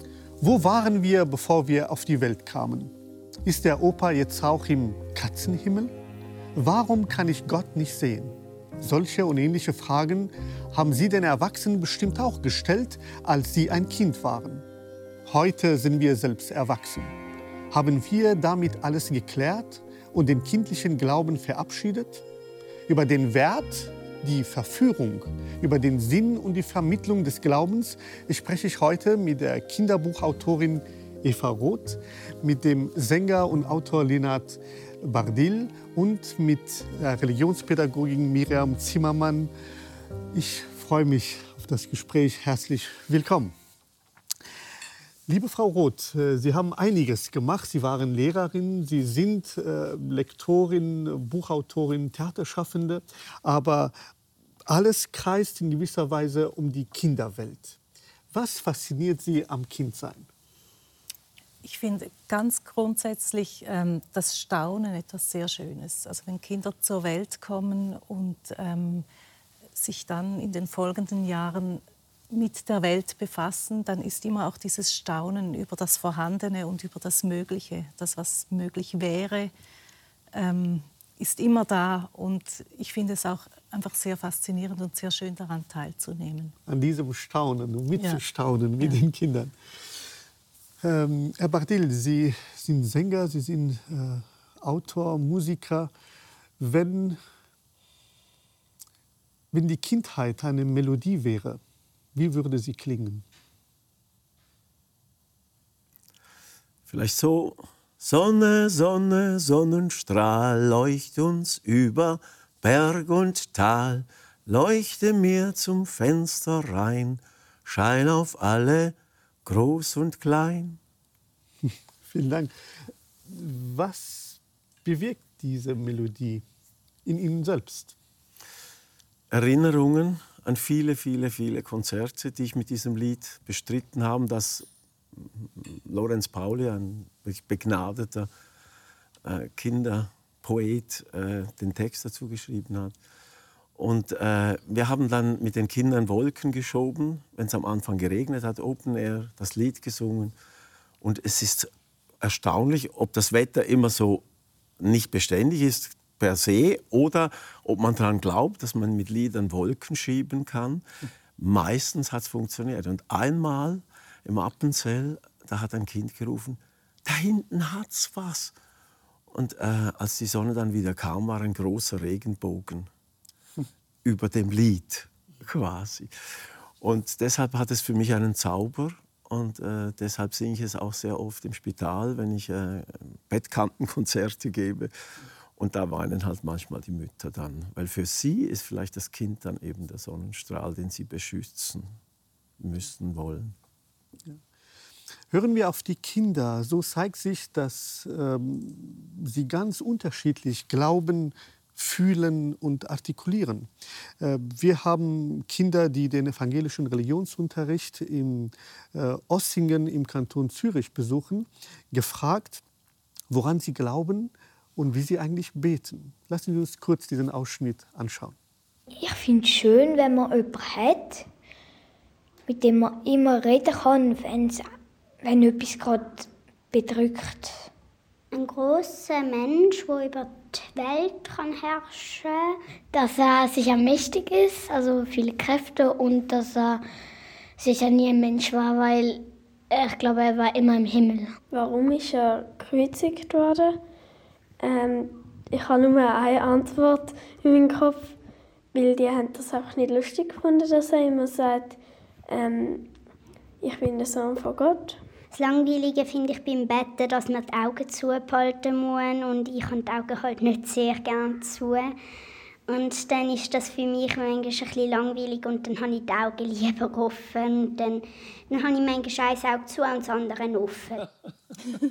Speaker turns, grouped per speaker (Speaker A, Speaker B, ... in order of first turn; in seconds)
Speaker A: 0.4-5.9, 6.5-14.7, 15.3-17.2, 17.7-22.2, 22.9-39.5, 40.3-43.5, 45.3-54.0, 54.7-57.8, 58.3-60.3, 86.7-89.5, 90.8-95.9, 96.6-97.2, 99.5-101.6, 102.2-103.2, 121.6-122.5, 123.3-126.4, 127.0-128.0, 195.3-212.6, 213.3-218.4
Speaker B: 61.6-69.1, 69.8-79.5, 80.3-86.5, 88.0-88.2
Speaker C: 106.9-120.8, 129.3-138.3, 139.2-142.9, 143.8-150.3, 151.0-151.7, 152.2-154.2, 154.8-160.8, 161.4-168.5, 169.3-172.9, 174.0-176.1, 176.8-184.9, 185.6-191.9, 192.6-193.5
Speaker D: 219.0-221.2, 222.5-224.7, 225.2-227.7
Speaker E: 228.3-236.8, 237.6-241.4, 255.3-261.9, 262.7-271.1
Speaker F: 241.5-243.8, 244.6-248.2, 248.7-252.9, 253.6-255.0